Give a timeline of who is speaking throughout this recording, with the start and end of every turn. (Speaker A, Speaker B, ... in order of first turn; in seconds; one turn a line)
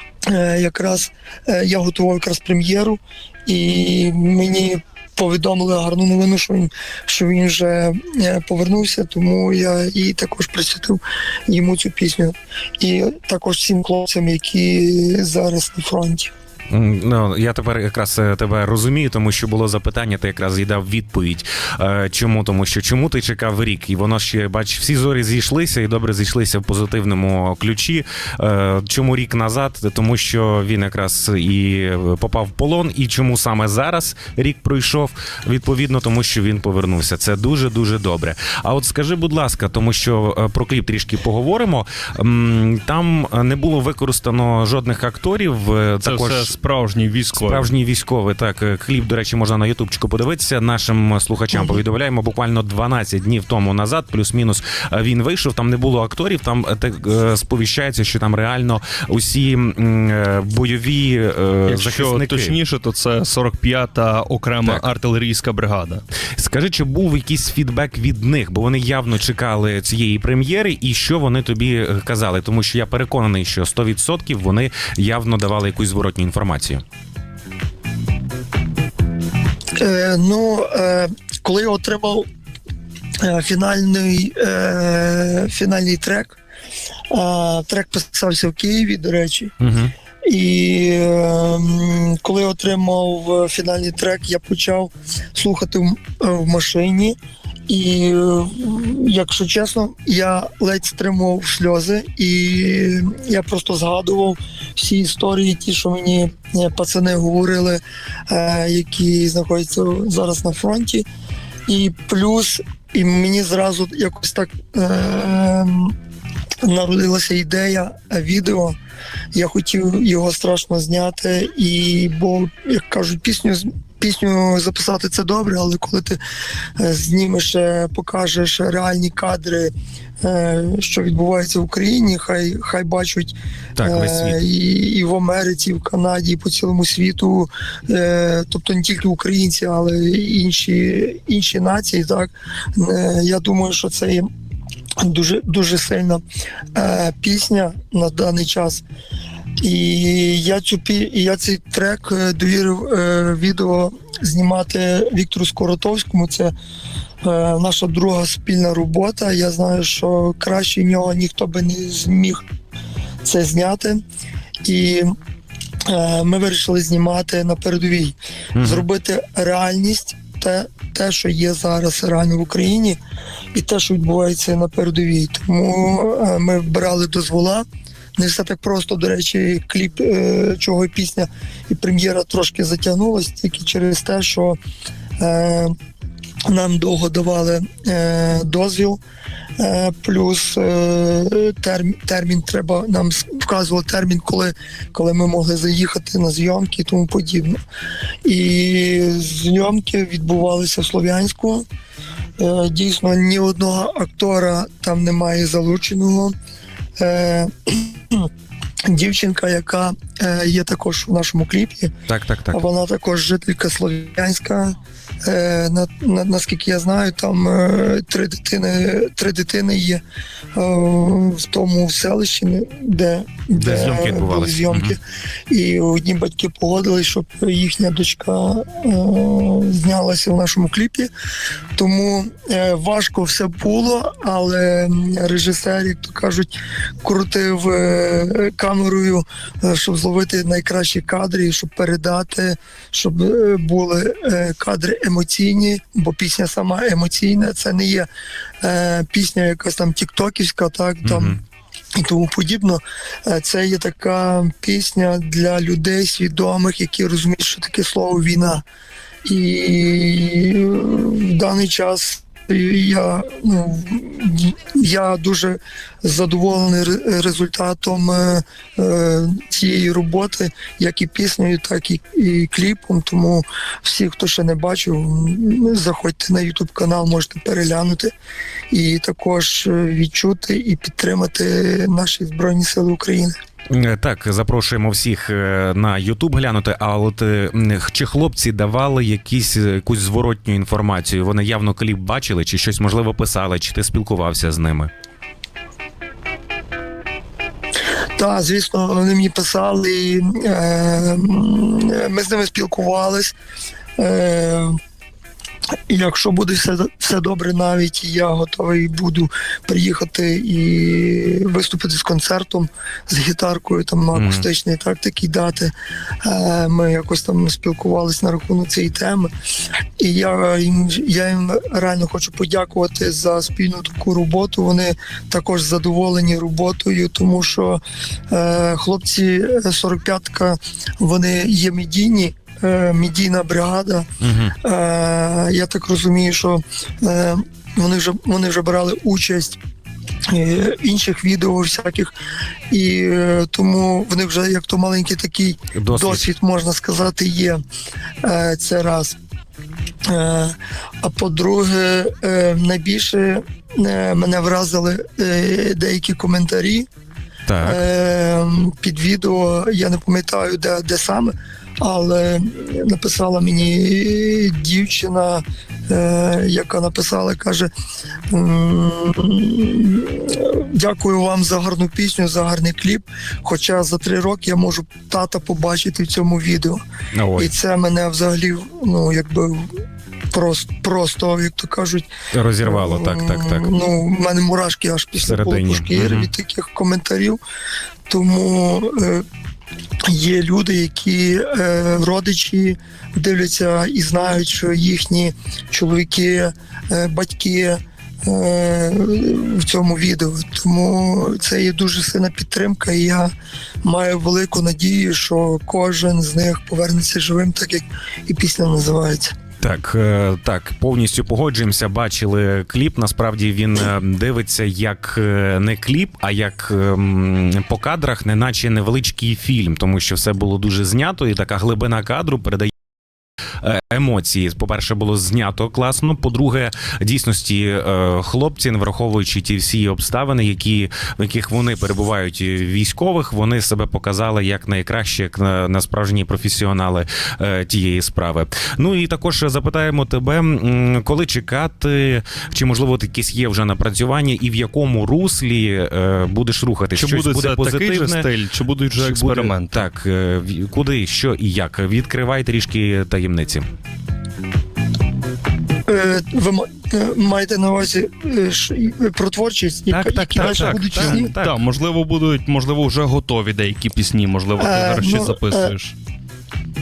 Speaker A: 0.3-16.3
Speaker B: 16.7-46.5
Speaker C: 46.0-47.7
Speaker B: 47.4-62.6
Speaker C: 61.7-66.0
Speaker B: 66.4-76.8
Speaker A: 79.8-82.3
Speaker A: 83.2-86.4
Speaker A: 87.1-89.5
Speaker B: 89.6-89.9
Speaker A: 90.2-97.2
Speaker A: 97.7-111.1
Speaker A: 111.7-116.0
Speaker A: 116.6-118.8
Speaker A: 119.3-126.2
Speaker A: 126.8-144.3
Speaker B: 133.8-134.4
Speaker A: 145.0-146.2
Speaker A: 146.8-148.8
Speaker A: 149.6-156.5
Speaker A: 157.2-162.4
Speaker A: 163.2-164.0
Speaker A: 164.6-165.2
Speaker A: 165.9-173.0
Speaker B: 168.6-168.8
Speaker A: 173.5-177.7
Speaker A: 178.2-184.6
Speaker A: 185.2-185.8
Speaker A: 186.5-189.0
Speaker A: 189.6-197.6
Speaker A: 198.2-201.7
Speaker A: 202.4-206.3
Speaker A: 207.0-208.3
Speaker A: 208.9-211.9
Speaker B: 212.1-212.7
Speaker A: 212.5-220.0
Speaker A: 220.5-231.1
Speaker B: 223.6-225.0
Speaker A: 231.8-248.1
Speaker A: 248.6-251.4
Speaker B: 251.0-251.4
Speaker A: 251.9-258.6
Speaker A: 259.2-278.1
Speaker A: 278.7-283.4
Speaker B: 283.7-294.9
Speaker A: 298.2-303.4
Speaker A: 304.0-304.8
Speaker A: 305.9-319.3
Speaker B: 314.1-314.5
Speaker A: 320.0-334.1
Speaker B: 334.2-334.6
Speaker A: 334.6-339.6
Speaker A: 340.3-342.1
Speaker A: 342.7-347.6
Speaker B: 345.8-346.3
Speaker A: 348.2-349.2
Speaker A: 350.1-356.9
Speaker B: 357.5-357.8
Speaker A: 357.6-367.7
Speaker A: 368.3-376.8
Speaker B: 377.1-377.5
Speaker A: 377.4-379.8
Speaker A: 380.3-382.1
Speaker B: 382.3-383.7
Speaker A: 382.6-387.4
Speaker B: 385.2-386.3
Speaker A: 388.1-389.3
Speaker A: 390.1-403.3
Speaker A: 403.8-409.3
Speaker B: 409.6-422.7
Speaker B: 423.6-448.3
Speaker C: 446.9-449.8
Speaker B: 449.0-453.7
Speaker A: 455.9-461.3
Speaker B: 459.9-461.6
Speaker C: 460.4-465.9
Speaker A: 464.6-465.8